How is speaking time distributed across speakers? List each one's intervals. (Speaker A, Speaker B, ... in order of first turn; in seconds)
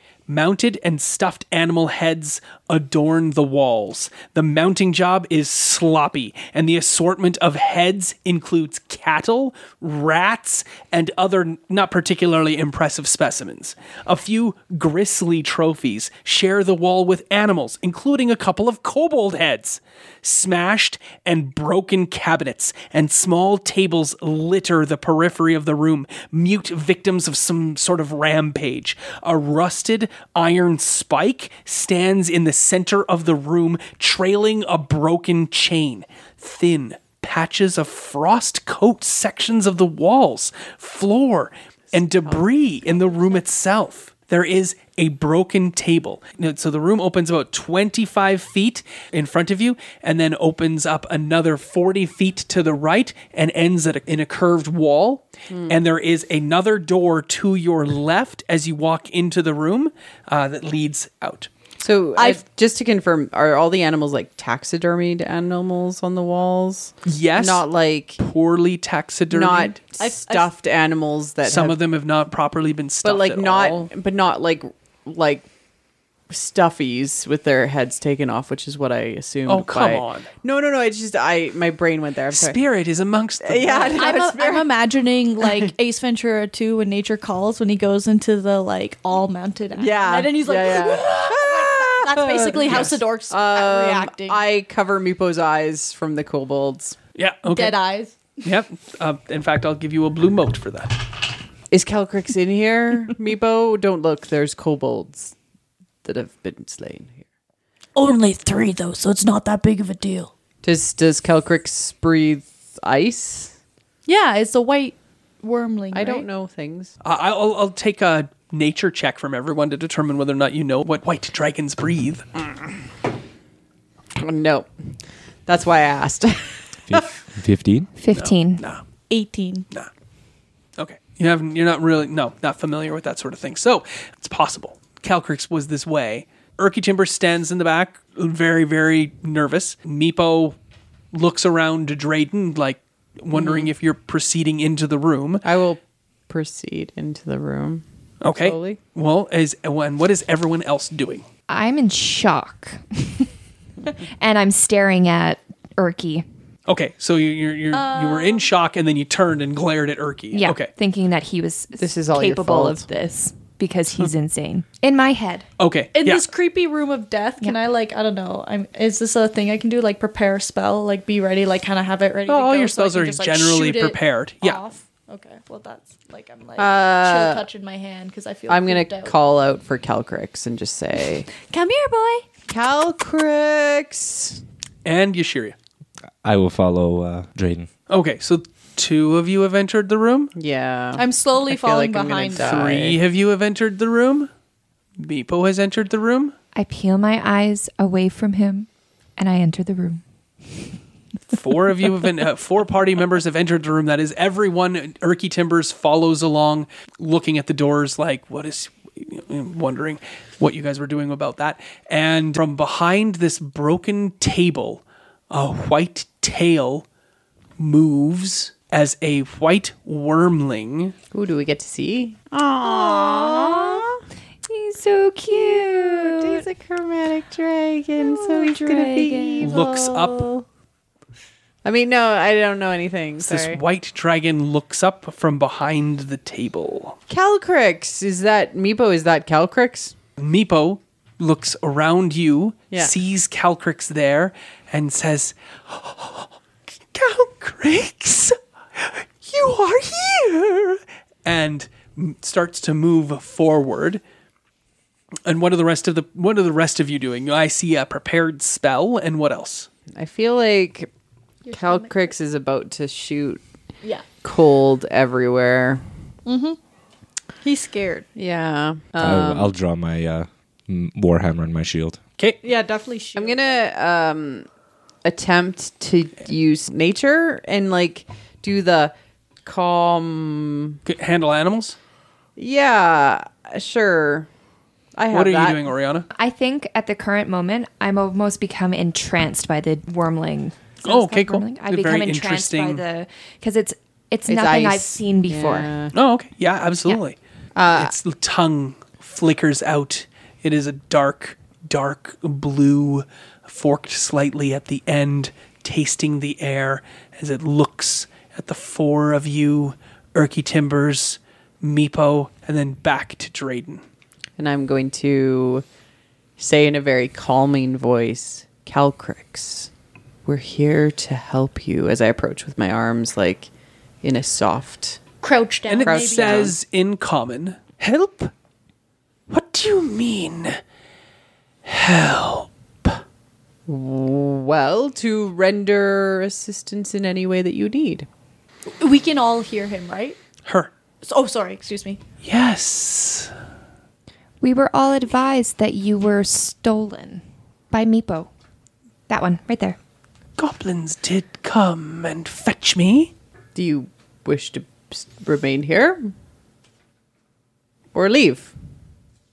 Speaker A: 0.3-61.5, 67.0-67.6, 68.2-69.8, 71.4-73.9, 79.5-80.3, 82.3-84.0, 97.1-97.8, 98.4-101.0, 117.0-122.2, 128.1-128.8, 130.8-140.6, 141.1-145.4, 148.2-151.2, 156.7-160.7, 165.6-166.3, 172.3-174.6, 184.8-185.6, 187.9-190.3, 192.4-194.3, 195.0-196.3, 201.3-216.8, 217.6-220.9, 229.4-230.3, 233.2-237.0, 240.2-246.3, 246.9-254.0, 255.2-259.7, 280.9-281.8, 285.1-286.1, 290.8-292.8, 295.9-297.2, 297.7-313.8, 325.7-328.3, 329.3-330.6, 331.6-333.0, 340.4-340.7, 342.2-343.3, 350.4-353.1
Speaker B: 41.9-43.4, 55.5-55.8, 61.8-68.2, 69.3-71.8, 73.0-75.4, 76.3-82.6, 83.4-84.9, 85.4-85.7, 89.7-97.0, 101.7-105.3, 106.0-107.2, 110.6-113.5, 115.9-116.9, 124.2-127.1, 143.3-143.7, 145.4-148.8, 161.8-162.9, 176.6-177.4, 178.5-181.3, 182.5-184.4, 190.3-193.0, 221.1-224.0, 225.5-230.4, 231.6-233.6, 237.1-239.9, 259.9-260.9, 261.5-263.4, 264.2-265.8, 268.1-269.5, 273.1-274.4, 275.0-278.9, 279.4-280.8, 282.4-284.3, 284.9-285.6, 294.3-295.9, 297.6-297.9, 314.4-315.6, 316.4-319.7, 320.2-323.5, 324.0-325.0, 325.8-326.5, 333.7-338.1, 353.5-356.1, 357.9-358.5
Speaker C: 62.1-62.4, 70.0-70.5, 83.9-94.4, 97.5-98.4, 114.0-116.3, 129.1-129.7, 157.7-158.5, 165.9-179.2, 181.4-182.2, 190.9-192.6, 261.5-262.1, 266.2-266.6, 267.4-268.1, 272.4-273.6, 325.2-326.5, 338.8-340.2, 341.0-342.0
Speaker D: 107.9-110.3
Speaker E: 126.9-127.9, 186.2-187.7, 269.0-272.0
Speaker F: 128.0-128.6, 151.5-153.3, 153.8-156.2, 160.3-165.5, 196.5-200.0, 222.6-223.8, 224.4-226.4, 228.0-229.5, 286.1-295.7, 344.4-348.3, 349.1-349.8